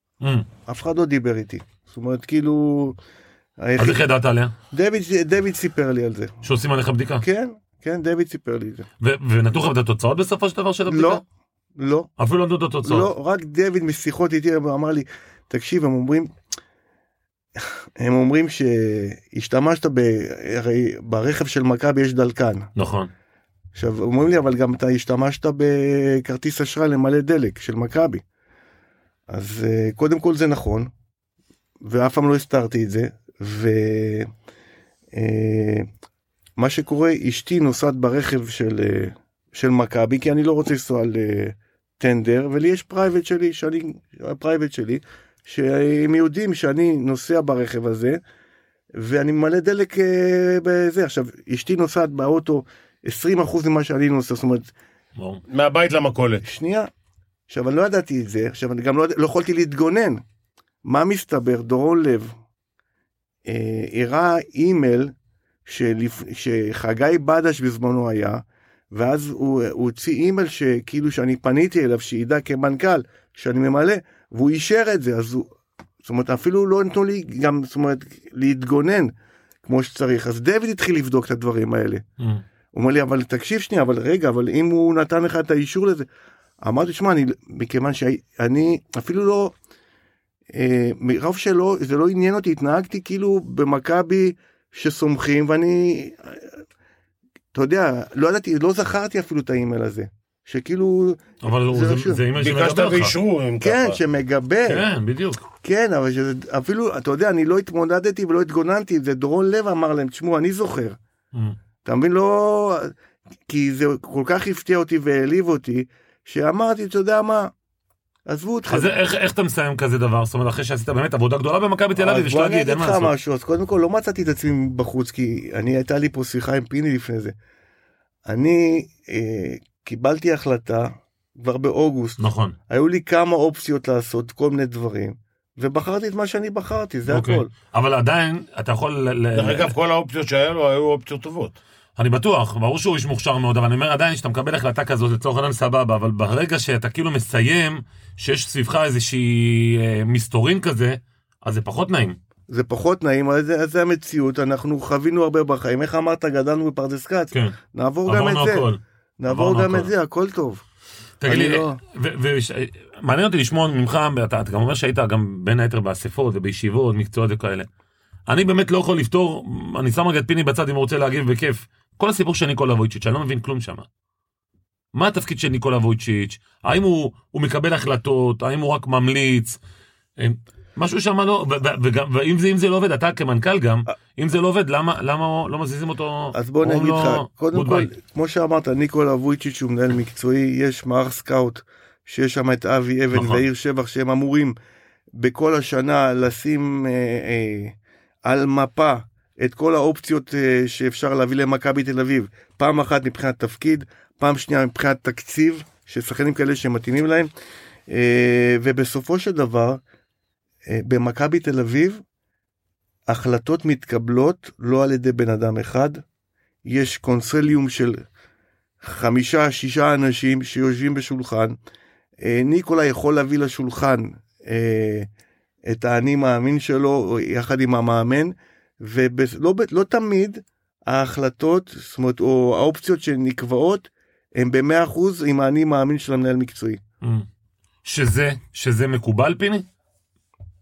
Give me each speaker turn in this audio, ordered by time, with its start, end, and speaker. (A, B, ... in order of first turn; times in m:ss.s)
0:00.2-0:00.5 A
0:00.7-0:03.0 B
0:03.6-0:04.0 B
0:03.8-0:04.5 A
0:04.7-0:06.4 B
0:06.4-0:07.2 A
0:07.2-0:08.9 B
0:09.0-0:11.2 A
0:10.9-0:11.2 B
0:11.8-0:12.1 B
0:12.2-0:13.1 A
0:12.8-0:16.3 B
0:17.6-0:22.7 B
0:22.8-0:23.1 A
0:23.7-0:28.2 B
0:29.3-0:30.9 B
0:31.8-0:34.3 B
0:35.1-0:35.9 B
0:36.6-0:48.2 B
0:48.9-0:54.7 B
0:55.2-0:55.4 A
0:55.5-0:56.4 C
0:56.4-0:56.9 B
0:57.5-1:00.2 B
1:00.8-1:02.3 B
1:03.4-1:05.1 B
1:05.6-1:15.5 B
1:16.0-1:19.1 B
1:19.6-1:22.0 B
1:22.7-1:26.0 B
1:26.6-1:29.5 B
1:30.5-1:36.5 B
1:37.5-1:42.2 B
1:41.4-1:43.1 A
1:42.4-1:44.0 C
1:43.6-1:44.8 B
1:44.7-1:45.4 A
1:45.6-1:51.0 B
1:51.8-1:52.9 B
1:53.5-1:57.5 B
1:58.3-1:58.9 B
1:58.7-2:03.1 A
2:02.0-2:07.3 B
2:08.2-2:17.5 B
2:12.2-2:12.6 A
2:17.1-2:19.7 A
2:19.3-2:21.6 C
2:22.0-2:32.2 A
2:32.5-2:38.7 B
2:37.3-2:39.9 A
2:39.2-2:40.6 B
2:41.2-2:47.7 A
2:41.2-2:41.8 B
2:48.3-2:53.8 A
2:54.9-2:59.6 A
3:00.2-3:07.9 A
3:06.3-3:14.6 B
3:13.1-3:13.4 A
3:15.2-3:27.3 B
3:27.9-3:29.8 B
3:30.7-3:32.0 B
3:33.1-3:36.0 B
3:36.6-3:38.0 B
3:38.8-3:41.6 B
3:42.2-3:45.1 B
3:45.6-3:56.8 B
3:57.8-3:59.6 A